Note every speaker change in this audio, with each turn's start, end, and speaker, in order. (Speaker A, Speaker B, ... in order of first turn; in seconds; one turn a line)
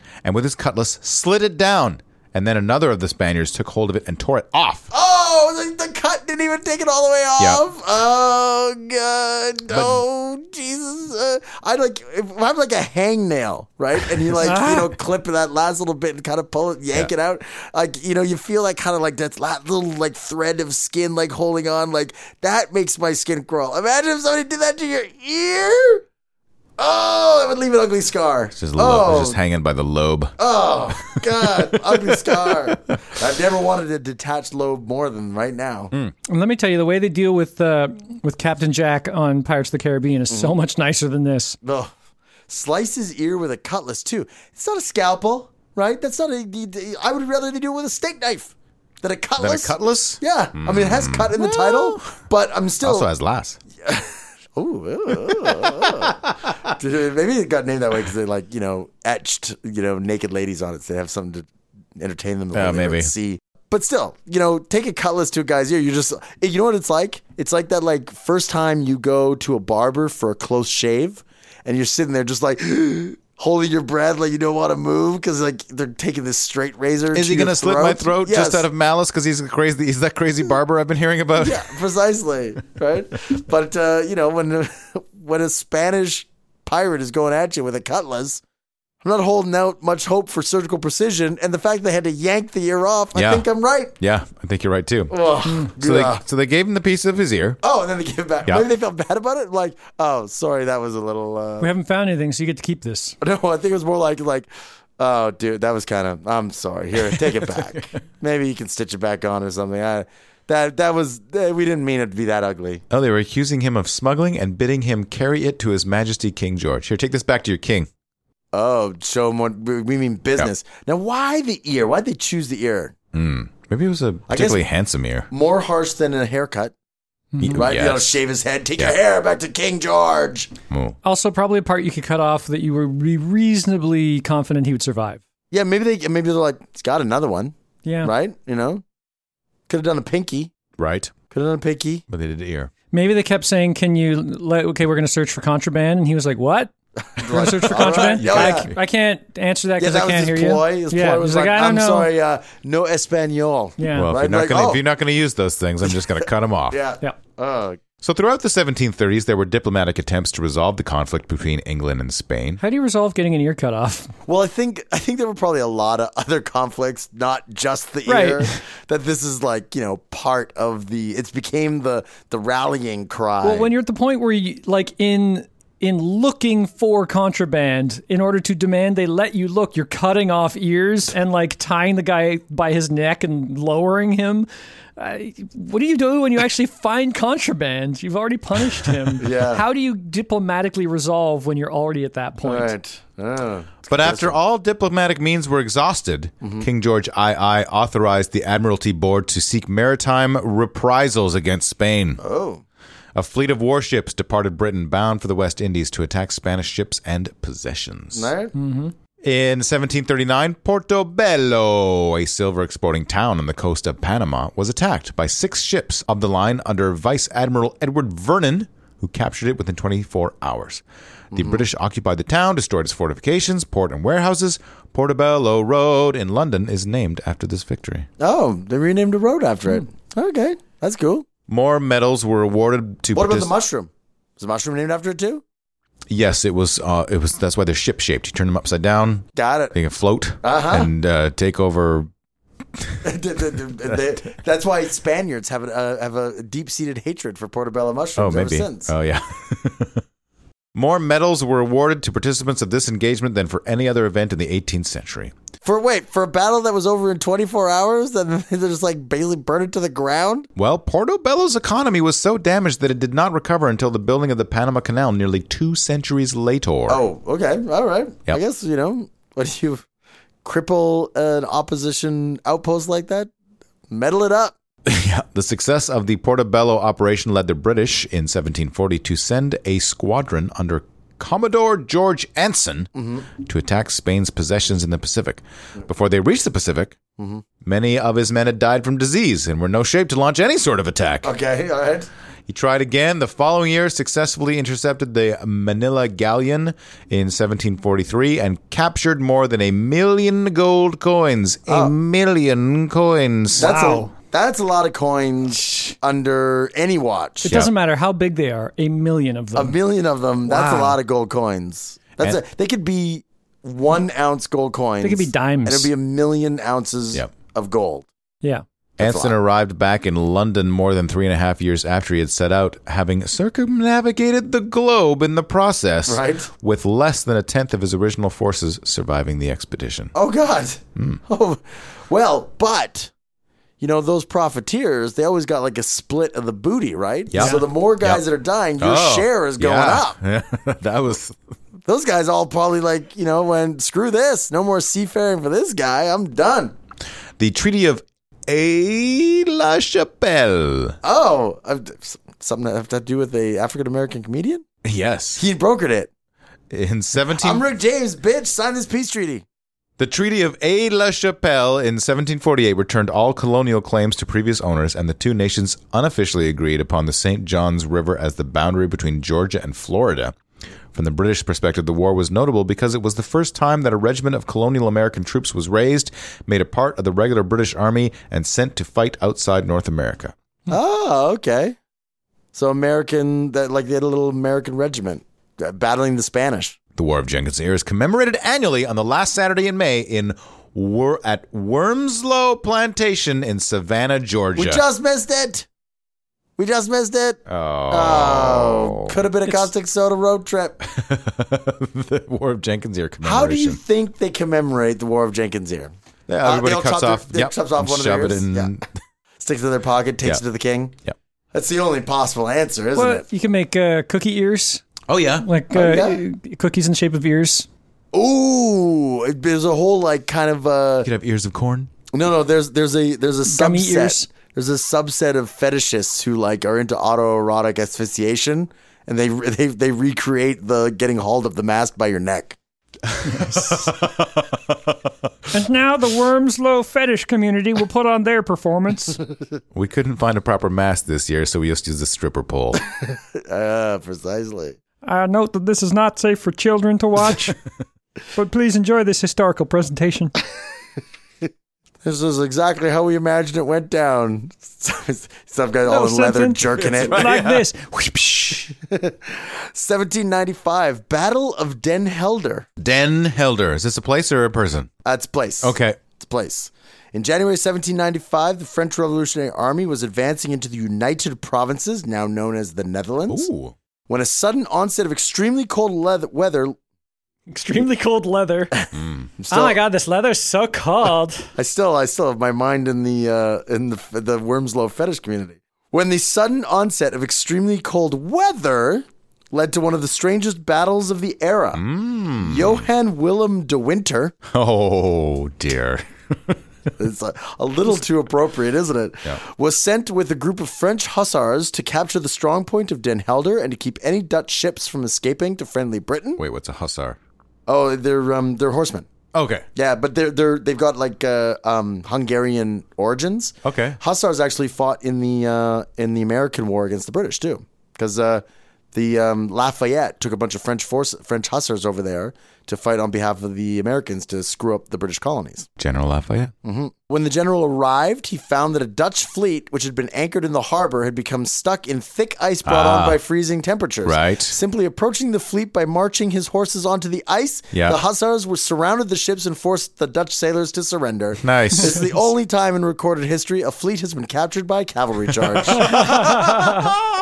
Speaker A: 0.2-4.9
Speaker B: 4.9-26.0
Speaker A: 9.7-10.0
Speaker C: 14.4-14.9
Speaker B: 26.8-29.4
Speaker A: 28.5-30.4
Speaker B: 30.4-35.9
Speaker A: 31.0-32.8
Speaker C: 36.2-41.6
Speaker B: 40.3-40.5
Speaker B: 41.6-41.9
Speaker B: 42.5-53.1
Speaker A: 49.4-52.1
Speaker A: 52.8-53.6
Speaker B: 53.8-78.6
Speaker A: 55.3-56.5
Speaker A: 62.5-63.1
Speaker A: 77.1-81.7
Speaker B: 81.4-88.4
Speaker B: 89.0-93.9
Speaker A: 93.1-93.5
Speaker A: 94.0-97.6
Speaker B: 95.1-96.2
Speaker B: 97.6-101.7
Speaker C: 101.6-103.2
Speaker B: 103.2-112.8
Speaker A: 112.9-117.9
Speaker B: 118.5-122.9
Speaker A: 123.1-125.3
Speaker B: 124.3-124.6
Speaker B: 125.3-126.7
Speaker C: 127.3-127.6
Speaker A: 127.4-128.2
Speaker B: 127.5-130.5
Speaker A: 130.7-131.0
Speaker C: 131.0-135.2
Speaker B: 135.5-138.8
Speaker C: 137.8-138.1
Speaker B: 139.7-140.5
Speaker A: 140.8-141.1
Speaker B: 141.3-142.0
Speaker A: 142.1-142.7
Speaker C: 142.9-152.1
Speaker B: 147.1-148.7
Speaker A: 147.8-148.8
Speaker B: 149.8-154.8
Speaker C: 153.8-154.1
Speaker A: 153.9-156.8
Speaker B: 156.7-157.8
Speaker A: 158.0-162.6
Speaker C: 162.6-164.1
Speaker B: 164.3-173.7
Speaker C: 168.1-168.5
Speaker C: 173.4-192.7
Speaker B: 189.2-189.6
Speaker B: 192.4-194.3
Speaker A: 193.9-202.2
Speaker B: 196.4-196.7
Speaker B: 202.2-202.6
Speaker A: 203.1-208.3
Speaker B: 208.1-208.5
Speaker C: 208.6-208.9
Speaker A: 209.2-228.1
Speaker B: 221.3-221.6
Speaker B: 228.2-231.2
Speaker A: 231.5-233.5
Speaker B: 233.1-235.4
Speaker A: 236.1-242.1
Speaker B: 239.3-239.7
Speaker B: 240.4-240.9
Speaker B: 243.0-248.9
Speaker A: 248.2-250.0
Speaker A: 250.7-255.3
Speaker B: 255.6-260.5
Speaker A: 260.6-267.0
Speaker B: 266.9-269.8
Speaker B: 270.4-273.3
Speaker B: 273.9-274.6
Speaker A: 274.8-286.9
Speaker B: 282.9-283.3
Speaker B: 287.2-287.4
Speaker A: 287.6-291.3
Speaker B: 291.2-292.1
Speaker A: 292.5-303.7
Speaker B: 301.7-301.9
Speaker B: 303.6-307.6
Speaker C: 303.6-304.1
Speaker C: 307.4-309.8
Speaker B: 309.5-318.1
Speaker C: 310.4-311.0
Speaker C: 315.0-315.9
Speaker A: 319.0-330.1
Speaker B: 319.0-319.3
Speaker B: 326.1-326.5
Speaker B: 330.1-333.1
Speaker A: 330.9-331.2
Speaker B: 333.8-340.2
Speaker A: 337.3-338.2
Speaker C: 337.4-337.6
Speaker A: 338.8-341.4
Speaker B: 341.9-346.7
Speaker A: 347.4-351.0
Speaker B: 351.0-354.6
Speaker A: 354.8-355.4
Speaker B: 355.4-356.1
Speaker A: 356.7-357.6
Speaker B: 357.4-359.4
Speaker A: 360.0-370.4
Speaker A: 370.9-380.3
Speaker B: 380.7-381.8
Speaker B: 382.5-386.8
Speaker A: 386.9-394.8
Speaker B: 394.6-395.7
Speaker B: 396.6-400.8
Speaker A: 397.5-399.6
Speaker A: 400.8-403.8
Speaker B: 403.2-408.7
Speaker A: 406.3-408.9
Speaker B: 409.4-410.9
Speaker B: 411.5-413.2
Speaker C: 412.9-417.7
Speaker A: 415.1-415.5
Speaker B: 415.7-416.2
Speaker B: 418.1-421.1
Speaker A: 421.0-421.9
Speaker B: 422.1-432.6
Speaker C: 423.5-424.3
Speaker A: 433.1-434.8
Speaker C: 435.5-439.2
Speaker A: 439.7-442.8
Speaker B: 443.1-444.8
Speaker C: 445.0-447.6
Speaker C: 448.3-450.3
Speaker B: 452.0-457.2
Speaker C: 455.9-458.7
Speaker A: 457.0-457.6
Speaker B: 458.8-462.7
Speaker A: 462.8-464.9
Speaker B: 465.0-473.5
Speaker A: 465.6-466.0
Speaker A: 473.3-473.8
Speaker B: 474.1-476.8
Speaker C: 477.5-478.7
Speaker A: 478.9-479.3
Speaker B: 479.4-479.8
Speaker C: 479.5-481.5
Speaker B: 481.5-491.8
Speaker A: 491.7-492.9
Speaker B: 492.4-494.3
Speaker A: 494.5-496.6
Speaker B: 497.0-506.4
Speaker A: 506.4-507.2
Speaker B: 507.7-509.1
Speaker A: 509.3-509.6
Speaker B: 509.7-525.7
Speaker A: 513.6-514.0
Speaker A: 525.8-526.5
Speaker B: 526.6-546.7
Speaker A: 532.6-533.2
Speaker A: 534.0-534.5
Speaker A: 537.7-538.0
Speaker A: 541.4-542.0
Speaker C: 545.8-547.0